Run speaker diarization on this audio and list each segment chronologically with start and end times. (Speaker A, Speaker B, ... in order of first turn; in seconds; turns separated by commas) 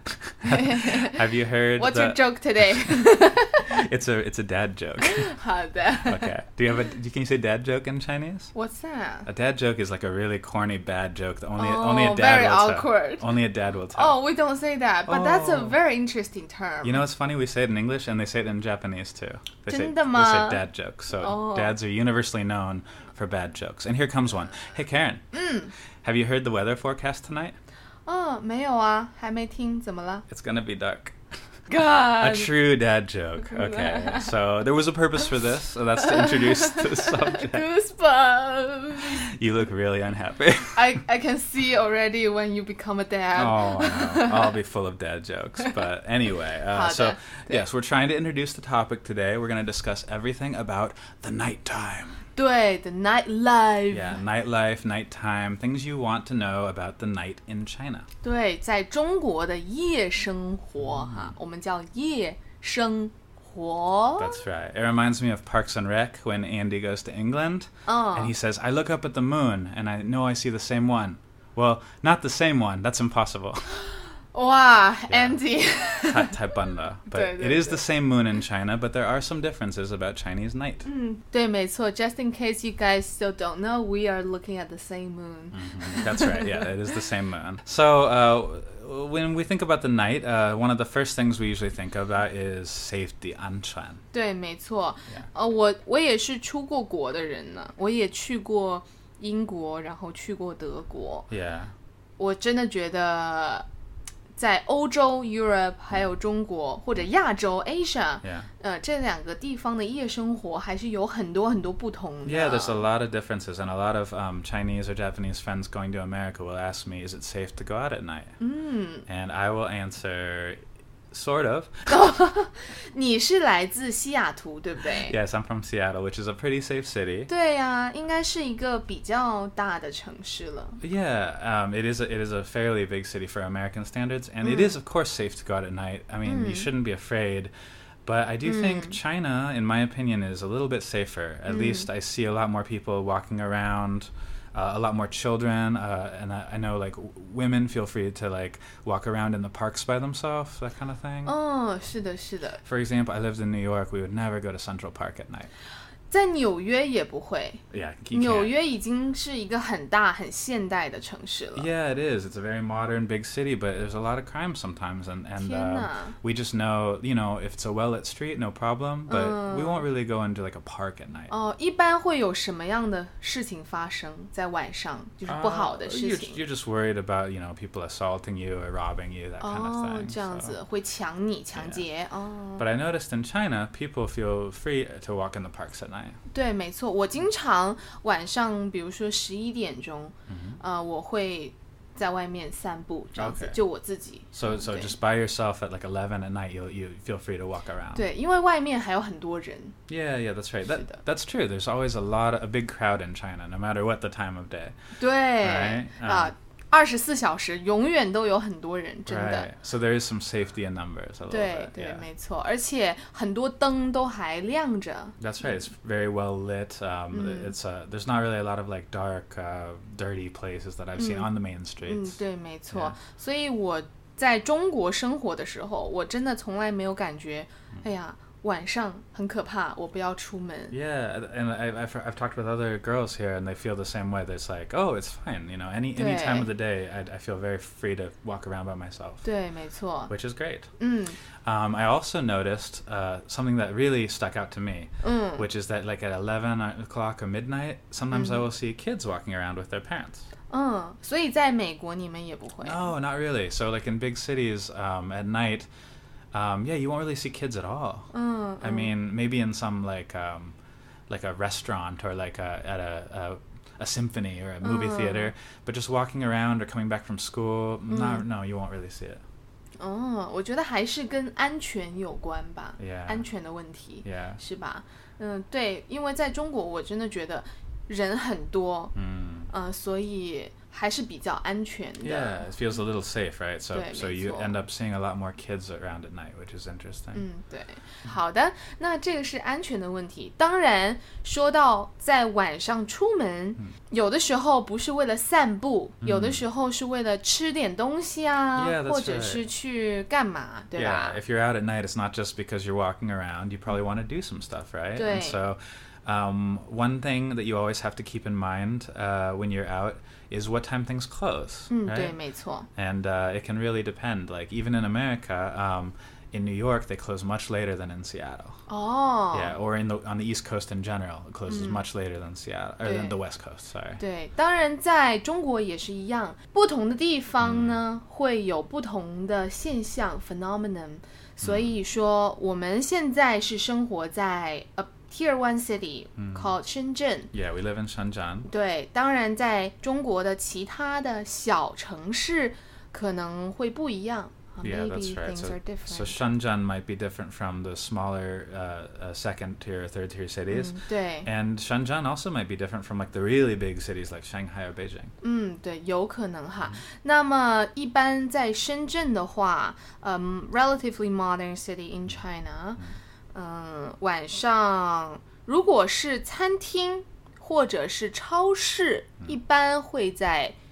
Speaker A: 0.3-5.3, Speaker B: 0.4-1.2, Speaker B: 1.8-3.8, Speaker B: 5.0-6.3, Speaker A: 6.0-8.5, Speaker B: 8.6-9.3, Speaker A: 9.3-14.2, Speaker B: 11.6-13.4, Speaker B: 13.9-17.0, Speaker A: 15.1-15.8, Speaker A: 16.8-25.2, Speaker B: 19.7-21.8, Speaker B: 25.3-25.7, Speaker A: 26.0-27.6, Speaker B: 28.1-30.2, Speaker A: 30.3-31.2, Speaker B: 31.7-32.5, Speaker A: 31.9-37.7, Speaker B: 33.5-34.3, Speaker B: 36.1-39.2, Speaker A: 39.0-40.8, Speaker B: 40.8-44.6, Speaker A: 43.4-52.2, Speaker B: 46.7-47.6, Speaker B: 52.4-54.2, Speaker A: 53.9-58.1, Speaker B: 58.2-64.4, Speaker A: 60.8-61.3, Speaker A: 64.2-73.8, Speaker B: 67.9-68.3, Speaker B: 74.3-76.6, Speaker A: 75.1-75.4, Speaker A: 76.0-80.9, Speaker B: 77.1-77.8, Speaker B: 80.9-86.5, Speaker A: 85.5-94.0, Speaker B: 94.1-101.3, Speaker A: 101.3-101.7, Speaker B: 102.2-103.7, Speaker B: 104.4-112.8, Speaker A: 108.2-108.5, Speaker A: 112.3-118.3, Speaker B: 118.4-119.1, Speaker A: 119.1-122.0, Speaker B: 121.9-125.2, Speaker A: 125.1-127.3, Speaker B: 127.3-130.8, Speaker A: 130.8-137.5, Speaker B: 136.2-136.7, Speaker A: 138.1-151.3, Speaker B: 138.4-139.0, Speaker B: 141.5-141.9, Speaker B: 151.2-152.6, Speaker A: 152.6-155.5, Speaker B: 156.1-161.7, Speaker A: 157.7-158.6, Speaker A: 161.6-171.3, Speaker B: 165.4-166.2, Speaker B: 169.1-169.8, Speaker B: 171.3-176.4, Speaker A: 175.3-180.6, Speaker B: 179.4-182.7, Speaker A: 181.5-181.8, Speaker A: 182.6-186.2, Speaker B: 186.3-194.9, Speaker A: 190.3-190.6, Speaker A: 193.2-193.6, Speaker A: 194.3-198.1, Speaker B: 197.9-199.8, Speaker A: 199.9-204.7, Speaker B: 205.0-209.5, Speaker A: 205.4-206.3, Speaker A: 209.1-212.0, Speaker B: 211.3-215.2, Speaker A: 215.2-222.2, Speaker B: 217.1-217.5, Speaker B: 221.0-221.3, Speaker B: 221.8-230.8, Speaker A: 222.7-223.0, Speaker A: 230.7-239.2, Speaker B: 235.9-236.5, Speaker B: 239.2-240.1, Speaker A: 240.1-240.7, Speaker B: 240.8-241.2, Speaker A: 241.4-250.3, Speaker B: 245.0-245.4, Speaker B: 248.1-248.4, Speaker B: 250.5-252.9, Speaker A: 252.6-255.7, Speaker A: 256.3-258.1, Speaker B: 258.1-258.9, Speaker A: 258.6-260.6, Speaker A: 261.1-269.2, Speaker B: 264.6-265.3, Speaker B: 267.9-268.2, Speaker B: 269.8-278.9, Speaker A: 272.8-273.2, Speaker A: 274.0-274.4, Speaker A: 278.9-279.5, Speaker B: 279.5-282.4, Speaker A: 282.0-287.2, Speaker B: 283.7-284.6, Speaker B: 287.1-301.2, Speaker A: 296.0-296.4, Speaker A: 298.6-299.5, Speaker A: 300.8-312.1, Speaker B: 305.0-305.4, Speaker B: 311.7-312.7, Speaker A: 312.8-318.6, Speaker B: 318.7-319.6, Speaker A: 319.3-324.0, Speaker B: 321.5-321.9, Speaker B: 322.8-323.2, Speaker B: 324.0-337.3, Speaker A: 327.4-327.8, Speaker A: 331.4-331.8, Speaker A: 336.2-336.6, Speaker A: 337.3-338.5, Speaker B: 338.5-346.2, Speaker A: 344.6-355.1, Speaker B: 350.5-351.3, Speaker B: 355.2-362.8, Speaker B: 363.3-370.6